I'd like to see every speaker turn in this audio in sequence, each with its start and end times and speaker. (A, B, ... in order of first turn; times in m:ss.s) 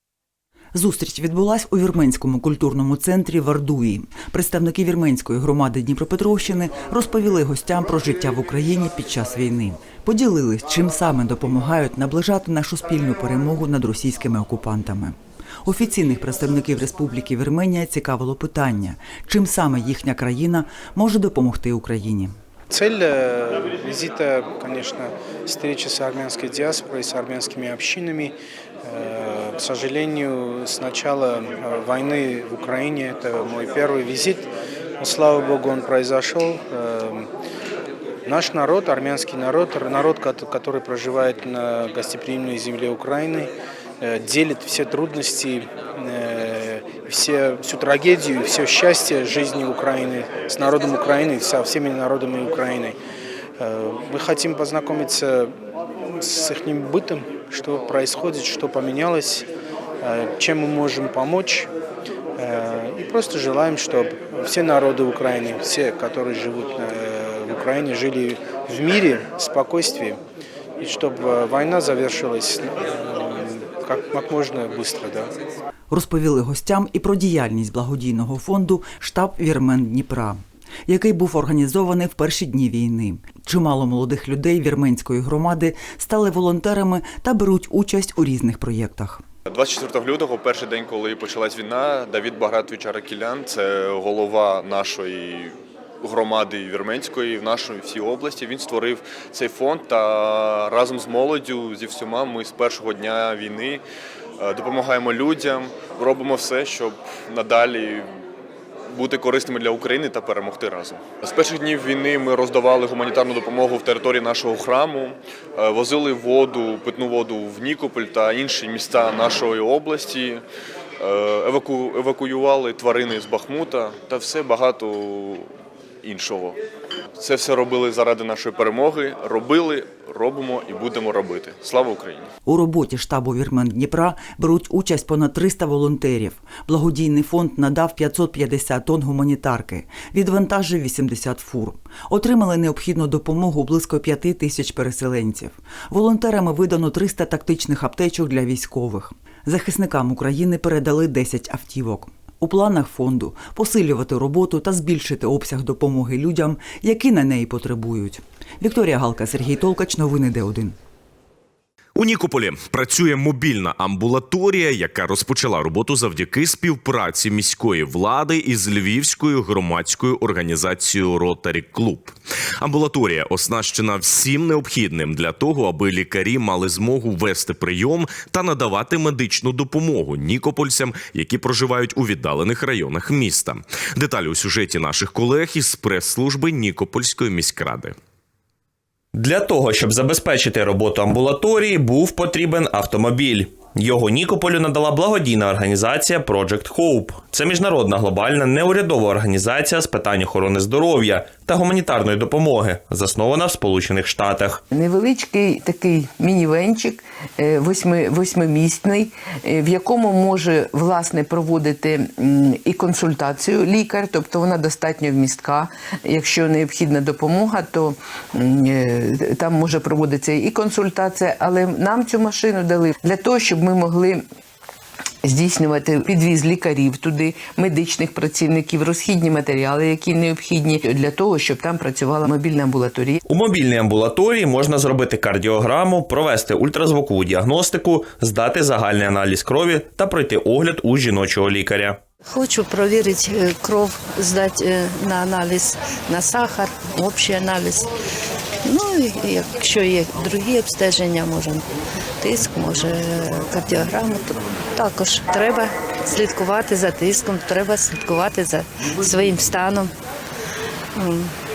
0:00.7-0:22.4 A
0:22.7-0:34.5 B
0:35.0-0:37.3 B
0:38.3-0:53.0 B
0:53.6-0:55.6 B
0:56.2-0:59.5 B
1:00.0-1:01.7 B
1:02.4-1:10.2 B
1:10.8-1:15.4 B
1:15.9-1:29.2 A
1:29.5-1:43.8 C
1:44.4-1:48.1 C
1:48.9-2:00.4 C
2:01.0-2:05.5 C
2:06.0-2:06.6 C
2:07.2-2:12.3 C
2:12.4-2:40.8 A
2:42.0-3:08.0 D
3:09.1-3:24.6 E
3:24.7-3:44.2 F
3:45.2-3:53.2 F
3:53.3-4:02.0 E
4:02.3-4:07.9 G
4:08.6-4:11.6 G
4:12.2-4:19.9 G
4:21.0-4:21.3 G